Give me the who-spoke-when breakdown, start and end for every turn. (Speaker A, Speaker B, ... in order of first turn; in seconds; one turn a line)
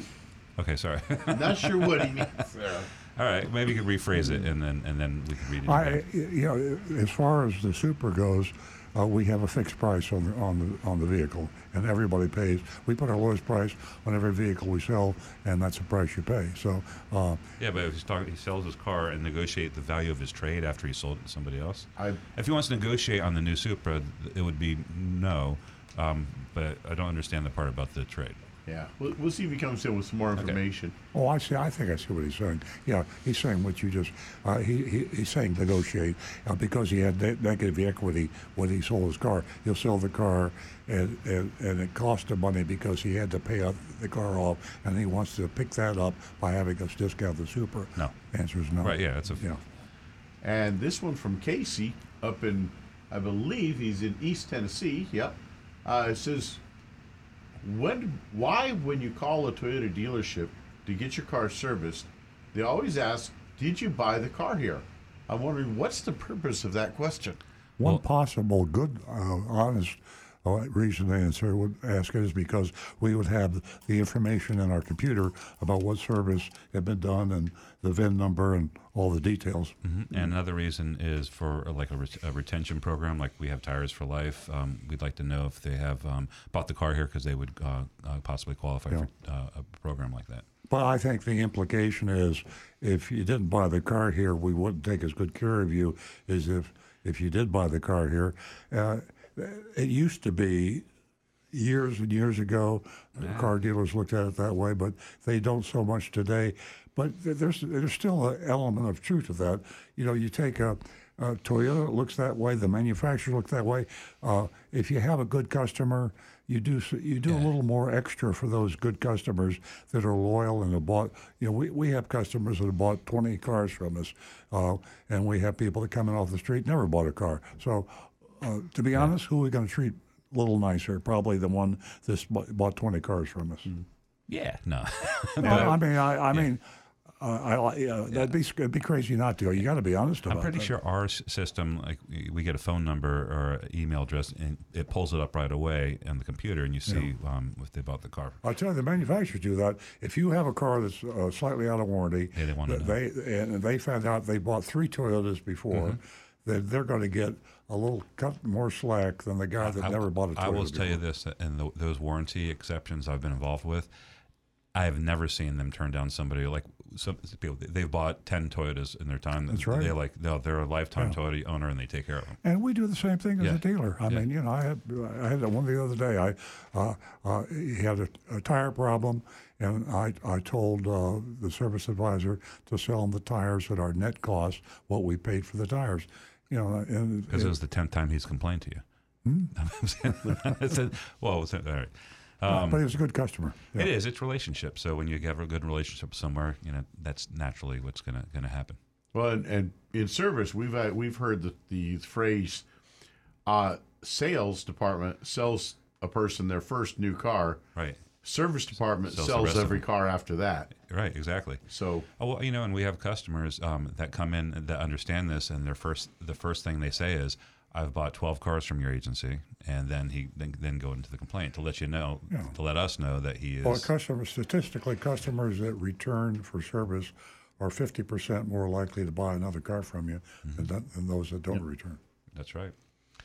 Speaker A: 0.6-6.0
Speaker B: 1.3-2.6
Speaker C: 4.2-4.5
Speaker C: 5.6-17.4
Speaker A: 17.6-28.4
Speaker B: 28.7-30.9
Speaker C: 31.1-49.6
Speaker A: 48.8-49.4
Speaker B: 50.4-56.6
Speaker B: 57.6-67.4
Speaker C: 67.8-79.8
Speaker A: 79.8-90.5
Speaker C: 90.7-100.9
Speaker C: 101.5-133.7
Speaker A: 103.2-103.5
Speaker A: 134.3-136.5
Speaker C: 135.4-136.6
Speaker C: 137.2-140.7
Speaker A: 140.2-148.4
Speaker C: 148.4-161.0
Speaker A: 152.4-152.9
Speaker A: 155.7-156.0
Speaker A: 159.6-163.9
Speaker A: 164.7-172.4
Speaker C: 169.5-169.9
Speaker C: 172.4-187.6
Speaker A: 173.4-174.2
Speaker A: 187.3-188.8
Speaker C: 189.2-189.5
Speaker A: 189.6-192.8
Speaker C: 192.5-193.9
Speaker A: 193.7-198.8
Speaker B: 199.1-202.7
Speaker B: 203.5-207.7
Speaker A: 207.8-208.1
Speaker B: 208.2-210.8
Speaker A: 209.1-209.9
Speaker A: 210.7-211.6
Speaker B: 211.7-212.1
Speaker A: 212.2-223.9
Speaker C: 223.6-232.0
Speaker A: 232.3-232.7